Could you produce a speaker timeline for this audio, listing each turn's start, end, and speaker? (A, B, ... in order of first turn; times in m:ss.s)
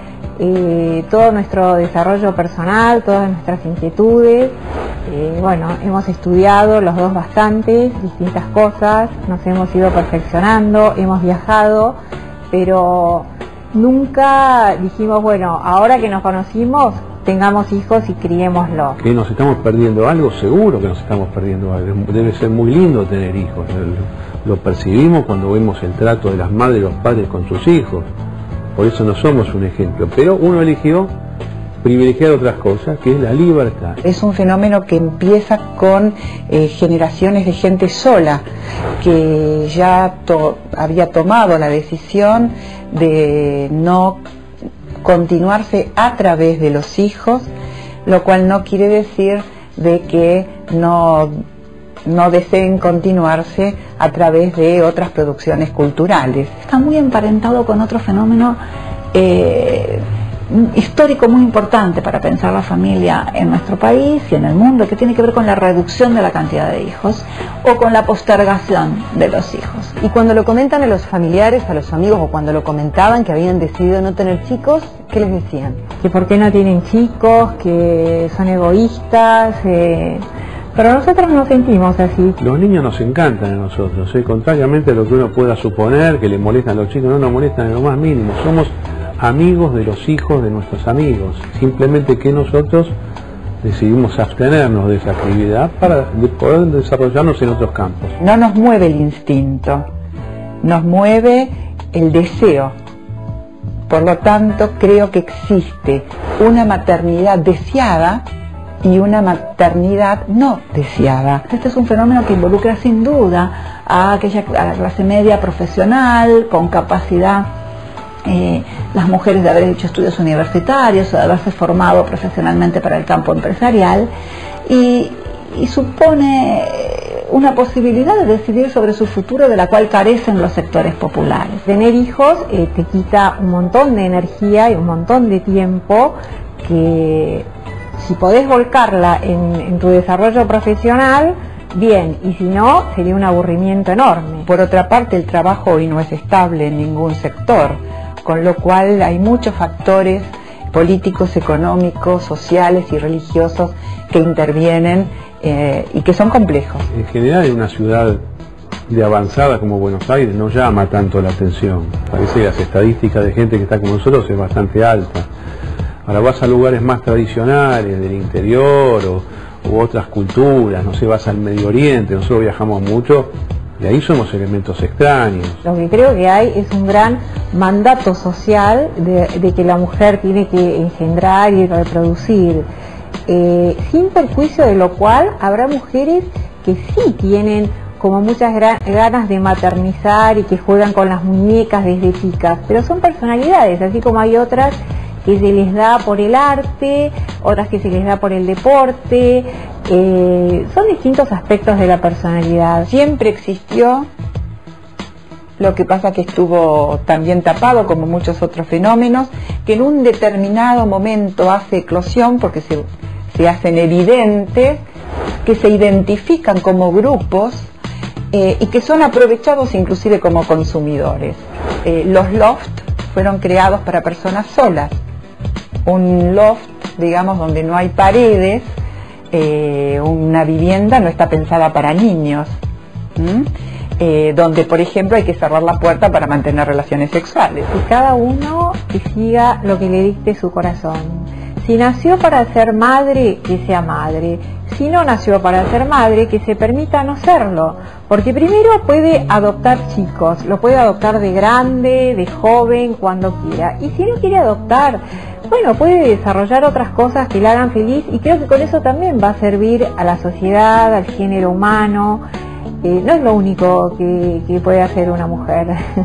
0:00.4-0:12.0 A
0:12.5-0:19.0 A
0:19.0-0:28.1 B
0:28.8-0:31.1 B
0:31.8-0:34.0 B
0:34.0-0:38.4 C
0:39.0-0:44.2 C
0:45.0-0:47.5 C
0:48.0-0:51.4 C
0:52.0-0:56.6 C
0:56.6-0:58.6 D
0:59.1-1:09.9 D
1:10.0-1:15.8 E
1:16.0-1:20.2 A
1:20.7-1:22.4 A
1:22.4-1:32.9 B
1:33.6-1:38.1 B
1:38.2-1:39.9 C
1:40.6-1:42.7 C
1:43.9-1:48.2 C
1:48.8-1:51.5 C
1:51.5-1:57.5 D
1:58.2-2:04.1 D
2:04.7-2:11.6 D
2:11.6-2:24.5 A
2:24.5-2:36.8 C
2:36.9-2:38.2 B
2:38.9-2:45.3 B
2:46.0-2:55.6 B
2:55.6-3:02.6 A
3:03.3-3:22.9 A
3:22.9-3:24.1 C
3:25.6-3:34.8 C
3:35.4-3:37.7 C
3:38.3-3:44.9 C
3:45.8-3:48.6 C
3:49.3-3:52.6 C
3:53.2-3:57.7 C
3:57.7-4:22.2 A
4:22.8-4:25.8 A